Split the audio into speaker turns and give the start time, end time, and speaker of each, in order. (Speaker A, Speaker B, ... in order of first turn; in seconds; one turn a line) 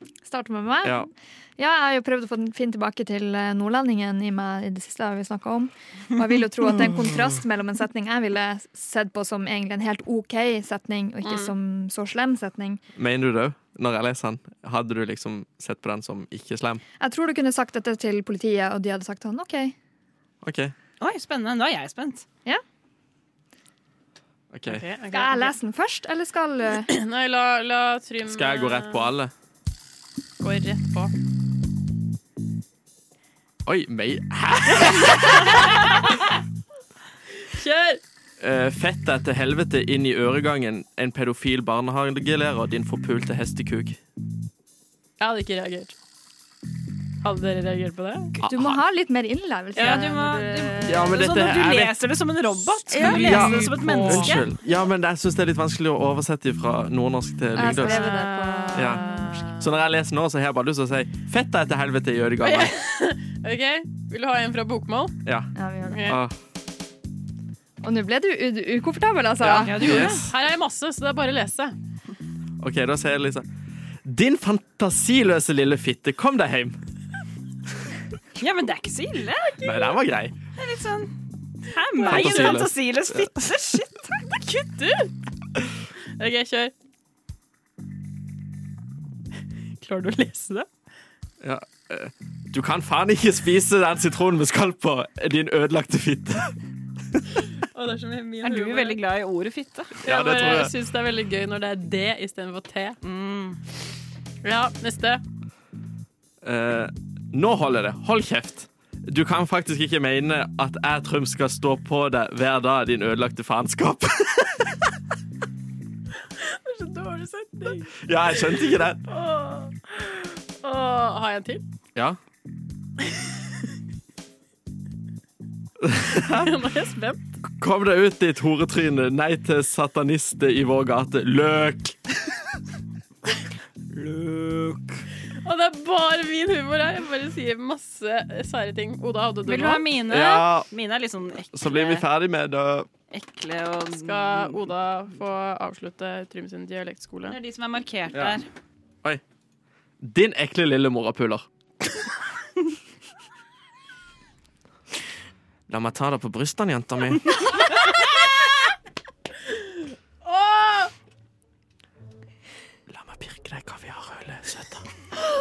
Speaker A: 0.3-12.8
Speaker B: 11.2-11.5
Speaker C: 12.9-16.8
Speaker A: 17.0-19.7
Speaker C: 20.4-20.7
Speaker D: 21.0-22.2
Speaker C: 24.5-24.8
Speaker B: 24.6-25.6
Speaker A: 25.1-26.9
Speaker B: 26.9-29.1
Speaker C: 28.2-29.3
Speaker B: 30.4-31.1
Speaker C: 33.6-35.9
Speaker B: 37.5-38.0
Speaker C: 38.4-44.0
Speaker B: 45.2-45.9
Speaker B: 47.2-48.5
Speaker A: 48.5-50.3
Speaker B: 49.7-51.2
Speaker D: 49.8-54.5
Speaker C: 50.8-52.0
Speaker B: 52.9-54.4
Speaker C: 53.0-58.0
Speaker A: 53.0-53.4
Speaker A: 57.5-59.5
Speaker B: 57.6-59.7
Speaker C: 58.7-59.0
Speaker C: 59.6-62.7
Speaker B: 62.4-65.2
Speaker C: 65.2-65.5
Speaker A: 65.5-66.2
Speaker B: 65.9-66.2
Speaker C: 66.0-66.3
Speaker A: 67.8-70.1
Speaker C: 69.4-70.3
Speaker D: 69.6-70.3
Speaker B: 69.9-71.7
Speaker C: 72.6-73.5
Speaker C: 74.0-76.8
Speaker D: 78.4-79.7
Speaker C: 79.6-80.3
Speaker D: 80.5-84.2
Speaker B: 82.0-82.6
Speaker C: 82.0-83.3
Speaker B: 84.2-85.1
Speaker B: 86.2-86.7
Speaker B: 89.8-90.6
Speaker C: 91.4-96.5
Speaker B: 97.7-99.0
Speaker D: 98.4-99.9
Speaker C: 100.0-100.7
Speaker B: 100.0-103.0
Speaker D: 103.0-103.6
Speaker B: 104.4-105.2
Speaker C: 106.4-114.9
Speaker B: 116.5-121.6
Speaker C: 118.0-119.0
Speaker C: 125.8-126.5
Speaker B: 126.3-127.2
Speaker C: 127.6-132.0
Speaker D: 133.9-134.8
Speaker B: 135.4-139.9
Speaker D: 139.4-142.1
Speaker C: 140.1-140.7
Speaker C: 141.5-142.9
Speaker D: 143.1-144.6
Speaker B: 143.9-147.4
Speaker D: 147.2-148.4
Speaker C: 150.0-151.4
Speaker C: 155.7-157.8
Speaker B: 160.2-160.9
Speaker C: 162.9-164.9